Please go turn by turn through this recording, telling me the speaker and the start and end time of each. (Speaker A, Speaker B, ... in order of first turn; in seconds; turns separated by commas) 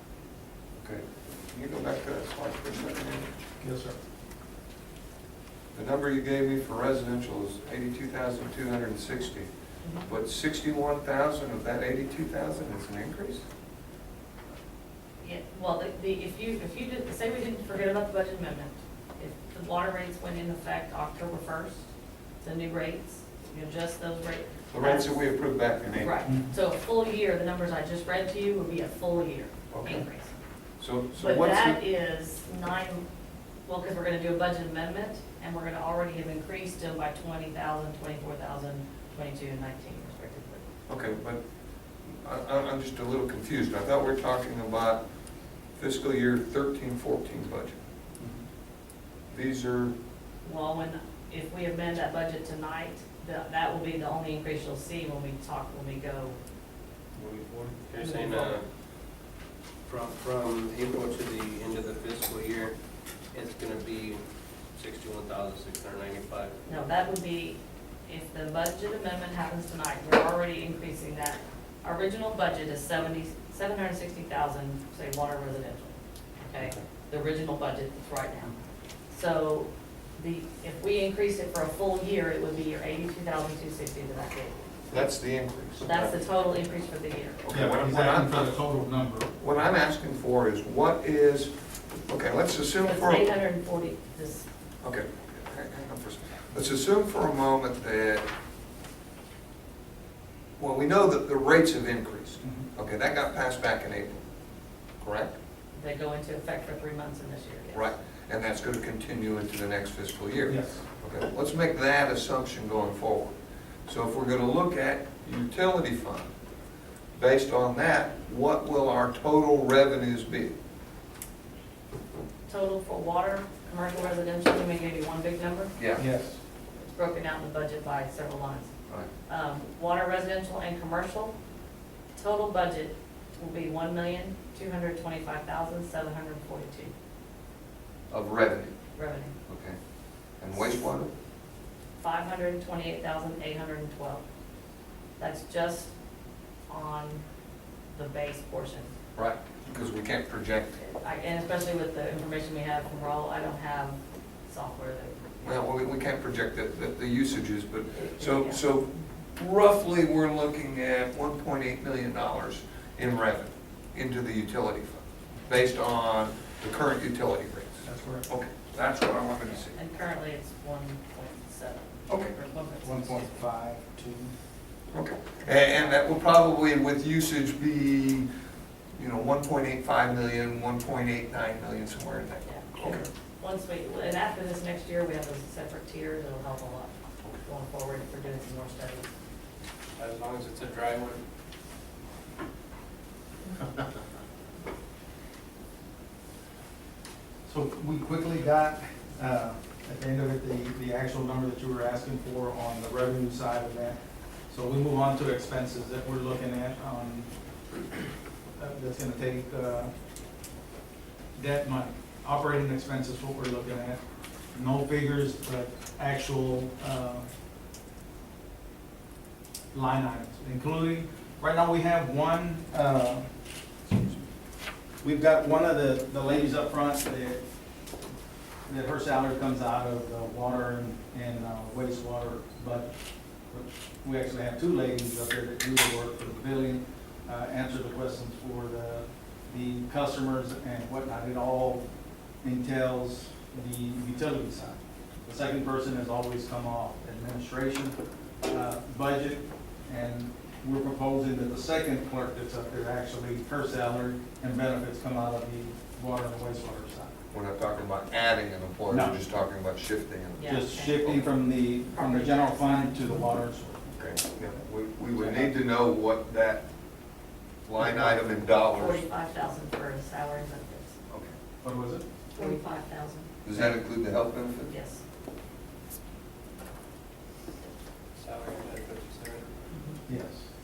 Speaker A: 0.8-3.3, Speaker B: 3.6-4.0, Speaker A: 5.7-9.5, Speaker A: 10.1-13.4, Speaker C: 15.2-21.9, Speaker C: 22.4-25.2, Speaker A: 24.7-26.2, Speaker C: 26.0-30.3, Speaker B: 26.2-26.5, Speaker A: 29.7-30.1, Speaker A: 30.8-31.8, Speaker C: 31.1-33.0, Speaker C: 33.6-40.6, Speaker A: 40.9-41.4, Speaker A: 42.1-45.0, Speaker A: 45.8-47.8, Speaker B: 48.2-48.4, Speaker A: 49.3-49.9, Speaker C: 50.4-56.4, Speaker D: 57.1-58.6, Speaker C: 58.0-58.6, Speaker D: 59.9-62.7, Speaker D: 63.3-64.2, Speaker D: 64.8-66.5, Speaker C: 66.7-78.5, Speaker C: 79.1-84.6, Speaker A: 84.9-86.2, Speaker C: 85.8-87.4, Speaker A: 87.4-88.6, Speaker B: 87.5-89.3, Speaker A: 89.4-91.5, Speaker A: 92.1-93.3, Speaker C: 92.8-94.5, Speaker A: 94.8-98.3, Speaker A: 100.6-104.2, Speaker B: 102.4-102.7, Speaker A: 105.0-105.3, Speaker C: 105.8-107.9, Speaker A: 107.7-116.3, Speaker B: 110.5-110.8, Speaker A: 117.1-120.5, Speaker C: 122.5-125.7, Speaker A: 125.8-126.0, Speaker B: 126.0-126.4, Speaker C: 126.8-128.7, Speaker C: 129.3-131.3, Speaker C: 132.2-136.9, Speaker A: 138.1-138.7, Speaker C: 138.9-139.3, Speaker A: 139.5-139.8, Speaker A: 140.4-141.1, Speaker C: 142.0-144.2, Speaker C: 145.2-145.9, Speaker C: 146.7-147.2, Speaker C: 147.9-148.9, Speaker A: 149.2-150.8, Speaker C: 150.8-155.4, Speaker A: 155.4-169.8, Speaker C: 157.9-158.6, Speaker B: 167.8-168.3, Speaker C: 169.4-173.3, Speaker B: 172.8-174.3, Speaker A: 174.9-178.3, Speaker C: 175.6-175.9, Speaker A: 178.9-183.1, Speaker C: 182.4-186.9, Speaker C: 187.4-189.1, Speaker D: 190.0-191.2, Speaker B: 197.4-207.3, Speaker B: 208.6-209.9, Speaker B: 211.3-214.0, Speaker B: 214.5-217.3, Speaker B: 219.7-223.3, Speaker B: 223.9-224.2, Speaker B: 225.0-227.4, Speaker B: 228.7-232.9, Speaker B: 233.5-241.8, Speaker B: 242.4-257.1, Speaker A: 257.3-261.2, Speaker B: 258.9-259.2, Speaker C: 260.3-261.2, Speaker B: 260.4-264.2, Speaker C: 261.9-263.0, Speaker A: 264.0-266.6, Speaker B: 265.1-265.5, Speaker A: 267.6-269.0, Speaker B: 267.8-268.1, Speaker C: 268.7-271.0, Speaker A: 271.1-271.3, Speaker B: 271.6-272.0, Speaker C: 272.4-273.3, Speaker A: 273.4-274.7, Speaker C: 274.7-275.0, Speaker D: 278.1-279.4, Speaker C: 279.7-280.0, Speaker B: 280.1-280.5